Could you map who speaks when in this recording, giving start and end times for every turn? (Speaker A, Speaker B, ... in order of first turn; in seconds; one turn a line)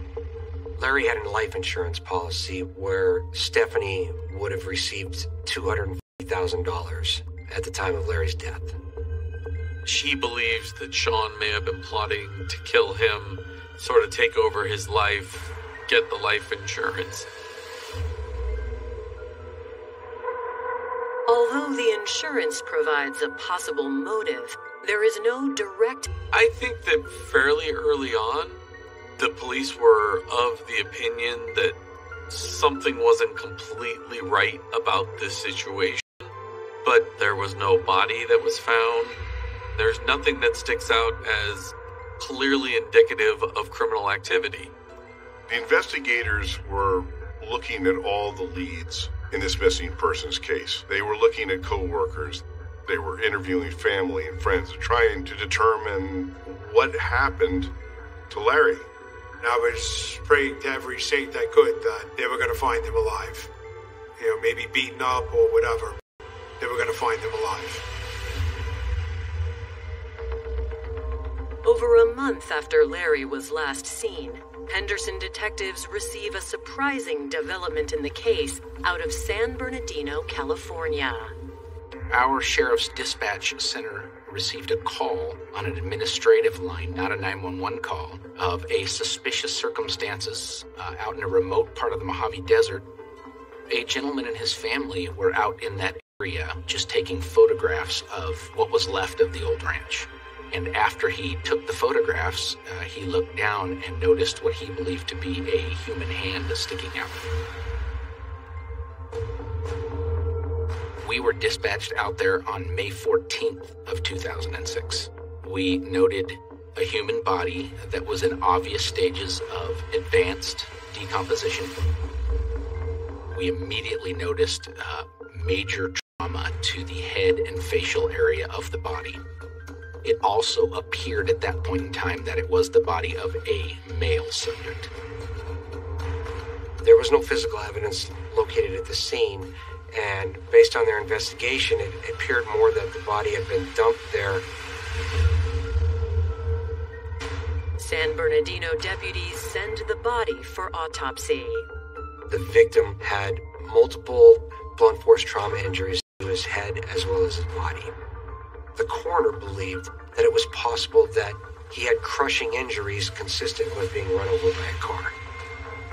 Speaker A: 0.8-8.8
Speaker B: 9.8-17.3
Speaker C: 21.3-26.1
Speaker B: 26.3-28.6
Speaker B: 29.2-31.8
Speaker B: 32.3-36.3
Speaker B: 36.8-39.2
Speaker B: 39.8-44.7
Speaker D: 45.5-57.7
Speaker D: 58.3-58.9
Speaker E: 59.4-63.5
Speaker E: 64.2-66.0
Speaker E: 66.6-67.8
Speaker C: 71.6-81.3
Speaker F: 82.1-92.9
Speaker F: 93.7-107.2
Speaker F: 111.0-121.8
Speaker F: 123.3-129.2
Speaker F: 130.0-134.9
Speaker A: 136.8-144.5
Speaker C: 147.8-151.7
Speaker A: 152.3-157.9
Speaker A: 158.8-165.2